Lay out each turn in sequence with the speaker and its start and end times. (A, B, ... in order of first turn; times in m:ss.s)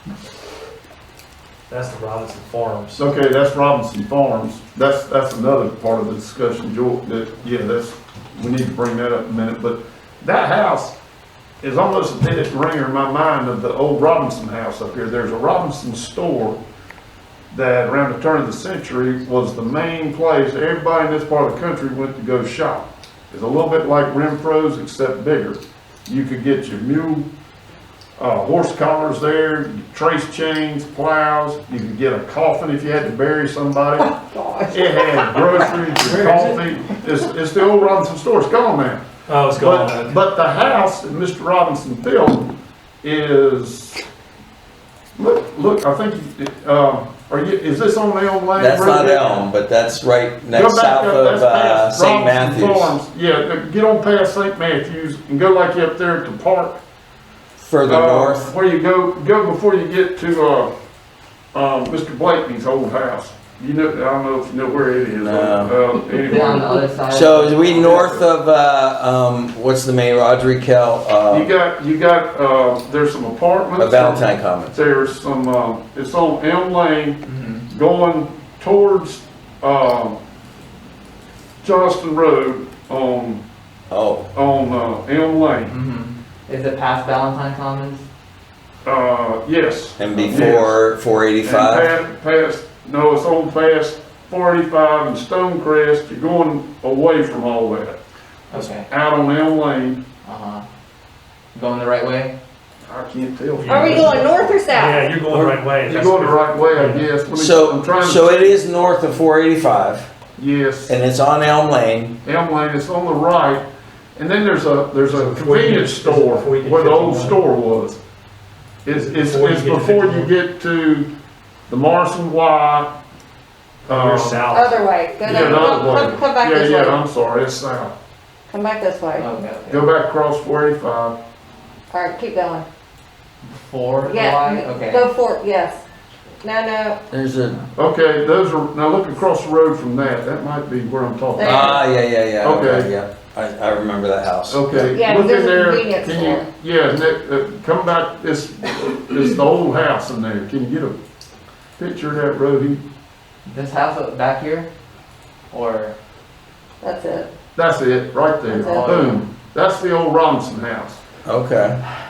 0:01.7-0:03.0 A
0:02.9-0:11.0 B
0:11.6-0:16.6 B
0:17.5-0:27.3 B
0:28.2-0:34.1 B
0:34.0-0:35.5 C
0:34.7-0:39.0 B
0:36.0-0:36.6 A
0:39.3-0:40.2 A
0:39.5-0:42.5 B
0:43.0-0:44.0 B
0:45.2-0:49.5 B
0:48.6-0:52.9 D
0:50.5-0:56.8 B
0:57.6-0:58.5 D
0:57.8-1:00.7 B
1:01.5-1:06.9 B
1:05.2-1:05.7 D
1:06.1-1:08.2 E
1:07.1-1:11.5 D
1:11.3-1:20.2 B
1:13.8-1:14.8 D
1:17.2-1:17.6 E
1:21.6-1:23.4 B
1:23.9-1:24.3 D
1:24.3-1:25.8 B
1:25.7-1:28.0 E
1:28.8-1:30.8 B
1:30.0-1:31.9 D
1:30.2-1:30.5 E
1:31.4-1:38.0 B
1:38.5-1:38.9 E
1:38.9-1:40.0 B
1:40.2-1:40.6 E
1:41.5-1:42.3 E
1:42.8-1:44.3 B
1:43.6-1:47.1 A
1:43.7-1:45.0 C
1:45.3-1:45.6 D
1:45.8-1:48.6 B
1:47.3-1:50.1 D
1:50.4-1:51.0 B
1:50.9-1:52.2 D
1:52.2-1:58.0 B
1:55.1-1:57.4 A
1:58.8-2:01.1 B
1:58.9-2:00.3 A
2:01.7-2:02.9 B
2:03.9-2:05.7 A
2:03.9-2:04.5 B
2:04.5-2:07.0 C
2:05.2-2:07.9 B
2:08.5-2:09.2 C
2:09.2-2:09.8 E
2:09.7-2:11.2 B
2:11.9-2:12.6 C
2:13.4-2:15.1 E
2:14.0-2:15.8 C
2:16.4-2:17.0 C
2:17.1-2:17.6 D
2:17.8-2:21.8 B
2:21.4-2:21.8 C
2:21.4-2:24.9 D
2:22.4-2:22.9 B
2:24.5-2:31.0 B
2:24.8-2:26.5 C
2:31.8-2:32.8 B
2:33.4-2:34.7 E
2:35.5-2:35.9 E
2:36.8-2:37.3 C
2:37.5-2:41.0 B
2:38.5-2:39.1 C
2:38.5-2:39.2 E
2:41.2-2:41.8 D